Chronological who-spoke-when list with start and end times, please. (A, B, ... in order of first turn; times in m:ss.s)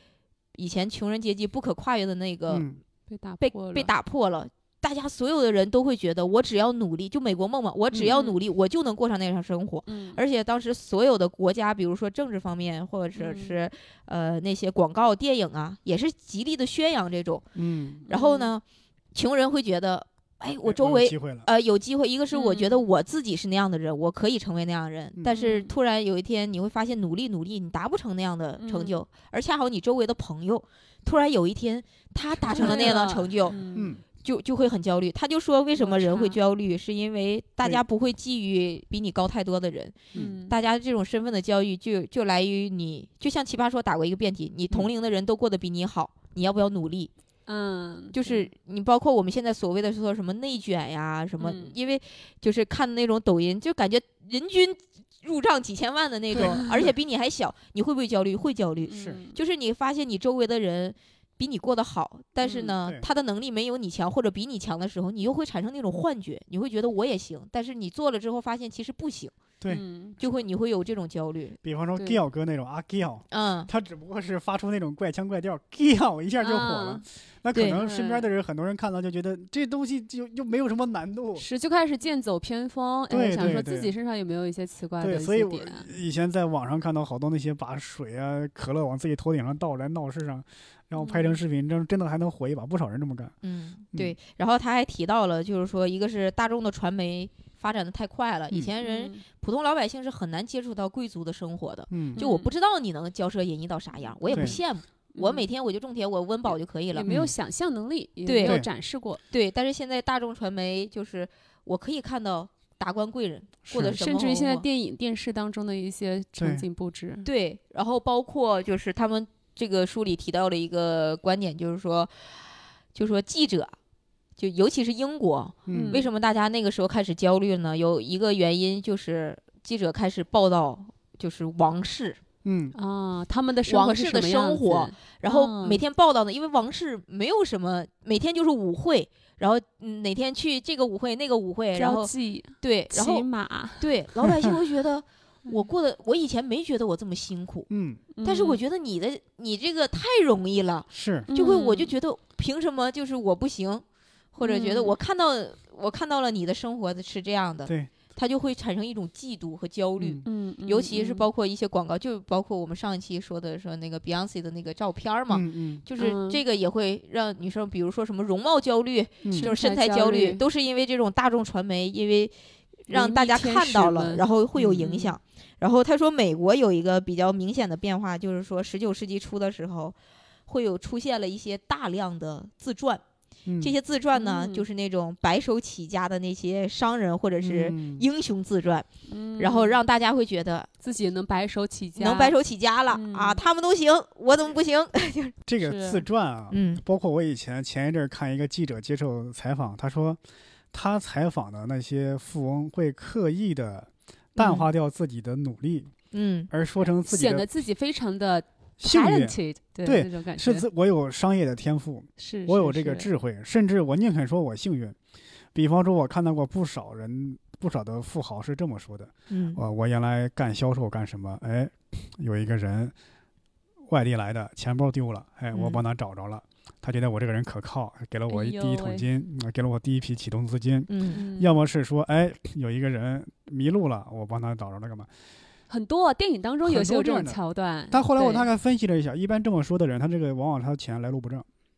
0:00.5-0:02.7 A
0:02.5-0:02.8 B
0:03.1-0:03.9 C
0:03.4-0:17.4 A
0:08.0-0:08.4 C
0:09.8-0:10.2 C
0:13.2-0:13.6 C
0:17.5-0:18.0 B
0:18.0-0:18.5 C
0:18.1-0:33.6 A
0:20.6-0:21.5 B
0:22.3-0:22.8 C
0:25.3-0:25.7 C
0:28.6-0:29.0 C
0:32.4-0:33.9 C
0:32.5-0:33.0 B
0:33.7-0:34.0 B
0:34.2-0:47.1 A
0:35.8-0:36.4 C
0:40.1-0:40.6 C
0:47.5-0:48.5 C
0:48.1-1:09.3 A
0:51.4-0:51.7 C
0:56.3-0:56.9 B
0:58.9-0:59.4 C
0:58.9-0:59.2 B
1:02.4-1:02.7 C
1:09.7-1:10.2 C
1:10.2-1:11.6 A
1:11.6-1:21.4 B
1:13.3-1:13.7 A
1:16.4-1:17.0 C
1:17.5-1:17.8 A
1:17.7-1:18.3 C
1:21.4-1:25.9 C
1:23.1-1:23.9 B
1:25.0-1:33.3 B
1:31.0-1:31.4 C
1:33.4-1:47.1 A
1:38.8-1:39.2 C
1:41.9-1:42.2 B
1:42.2-1:42.5 C
1:44.2-1:44.6 C
1:44.3-1:44.6 B
1:45.1-1:45.4 C
1:46.9-1:49.2 C
1:47.0-1:47.3 B
1:48.2-1:48.6 A
1:48.4-1:48.7 B
1:49.3-1:54.6 A
1:53.7-1:54.0 B
1:53.8-1:57.3 C
1:56.4-1:56.6 B
1:57.2-2:02.1 A
2:02.9-2:03.7 A
2:04.4-2:12.2 A
2:05.7-2:06.0 B
2:05.7-2:06.1 C
2:12.4-2:12.7 B
2:12.7-2:15.8 C
2:13.7-2:23.3 A
2:21.7-2:23.9 C
2:23.8-2:27.7 A
2:27.7-2:28.0 B
2:28.1-2:28.6 C
2:28.2-2:52.3 A
2:30.9-2:31.3 B
2:31.3-2:31.9 C
2:34.4-2:35.0 C
2:40.0-2:40.2 B
2:40.2-2:41.3 C
2:45.3-2:45.8 B
2:46.0-2:46.4 C
2:49.2-2:49.5 B
2:49.4-2:50.4 C
2:52.8-2:59.9 A
2:52.9-2:54.2 C
2:54.6-2:54.8 B
2:54.8-2:55.2 C
3:00.5-3:03.0 A
3:03.4-3:03.7 B
3:03.6-3:08.9 A
3:04.1-3:04.6 C
3:07.4-3:08.0 B
3:09.1-3:09.8 C
3:09.4-3:10.7 A
3:10.8-3:12.4 C
3:12.0-3:15.3 A
3:12.9-3:13.4 C
3:15.4-3:20.2 B
3:15.6-3:16.0 C
3:16.5-3:16.8 A
3:20.7-3:25.9 B
3:24.4-3:24.6 A
3:26.1-3:26.5 A
3:26.5-3:27.4 B
3:27.0-3:30.6 C
3:28.8-3:35.0 B
3:32.2-3:33.1 C
3:35.5-3:42.9 B
3:39.3-3:39.6 A
3:43.9-3:55.1 B
3:45.5-3:45.8 A
3:48.3-3:49.1 C
3:50.9-3:51.2 A
3:51.1-3:51.5 C
3:55.7-3:58.5 C
3:56.6-3:57.4 B
3:57.9-4:01.4 B